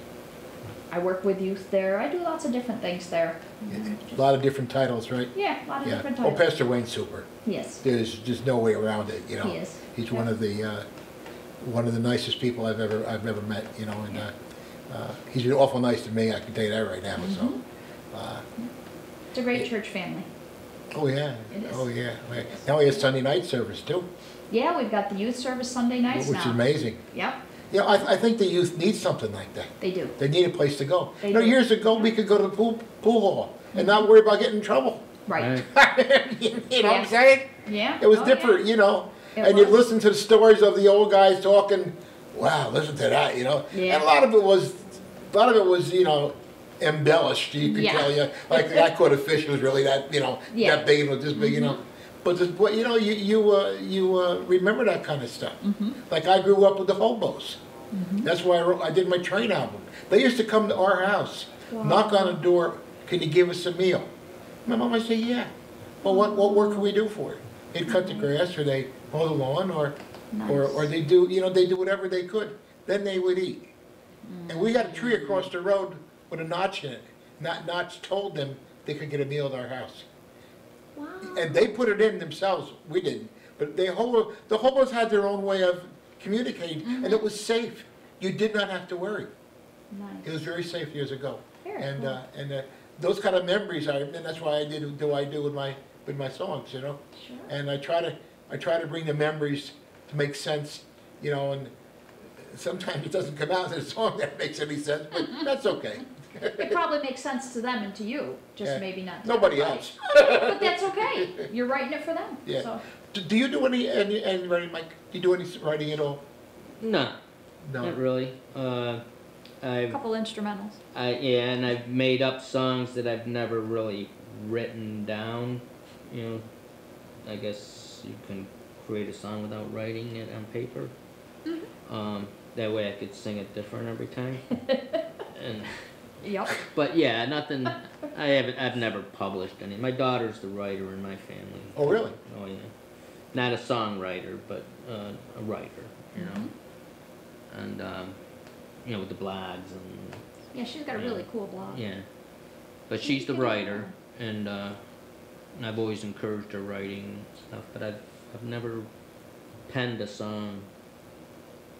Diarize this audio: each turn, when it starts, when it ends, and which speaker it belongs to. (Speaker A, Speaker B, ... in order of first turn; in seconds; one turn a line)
Speaker A: 0.9-4.3
Speaker B: 3.7-5.3
Speaker A: 5.3-6.4
Speaker B: 5.8-7.3
Speaker A: 7.5-7.8
Speaker B: 7.8-10.9
Speaker A: 9.4-10.3
Speaker B: 11.6-14.3
Speaker B: 14.9-17.6
Speaker A: 17.2-17.6
Speaker B: 18.1-18.5
Speaker A: 19.3-20.3
Speaker B: 20.9-24.1
Speaker A: 21.5-21.9
Speaker A: 24.5-26.6
Speaker B: 26.1-27.0
Speaker A: 27.1-27.4
Speaker B: 27.7-35.1
Speaker A: 29.8-30.2
Speaker A: 31.2-32.1
Speaker A: 33.7-34.0
Speaker A: 35.3-35.6
Speaker C: 35.4-35.7
Speaker B: 35.6-57.6
Speaker A: 36.8-38.6
Speaker A: 39.4-39.8
Speaker A: 43.7-44.1
Speaker A: 47.6-48.9
Speaker A: 50.5-51.8
Speaker A: 55.6-56.0
Speaker A: 57.9-58.3
Speaker B: 58.2-64.1
Speaker A: 61.7-62.4
Speaker B: 64.7-70.0
Speaker A: 66.1-66.9
Speaker A: 67.9-68.3
Speaker A: 70.3-70.9
Speaker B: 70.5-73.7
Speaker A: 74.3-75.5
Speaker B: 74.5-80.1
Speaker A: 81.0-81.7
Speaker B: 81.3-89.3
Speaker A: 86.8-87.2
Speaker A: 89.9-90.4
Speaker B: 90.2-101.7
Speaker A: 91.6-92.2
Speaker A: 97.2-97.5
Speaker B: 102.4-106.8
Speaker A: 105.2-105.5
Speaker A: 106.6-112.8
Speaker B: 108.6-111.5
Speaker B: 112.5-116.2
Speaker C: 116.8-117.2
Speaker B: 117.7-118.0
Speaker C: 117.8-119.0
Speaker C: 119.6-120.0
Speaker A: 119.9-120.8
Speaker C: 120.9-126.5
Speaker C: 127.2-130.9
Speaker A: 131.5-131.7
Speaker C: 131.9-134.4
Speaker A: 134.7-135.0
Speaker C: 135.3-135.8
Speaker A: 136.2-136.6
Speaker C: 136.5-142.7
Speaker B: 141.8-142.2
Speaker C: 143.3-146.5
Speaker A: 146.2-146.5
Speaker C: 147.5-148.2
Speaker C: 148.8-150.2
Speaker A: 150.5-151.8
Speaker C: 150.9-152.1
Speaker C: 152.9-154.8
Speaker A: 153.0-153.9
Speaker C: 155.6-158.9
Speaker C: 159.7-160.7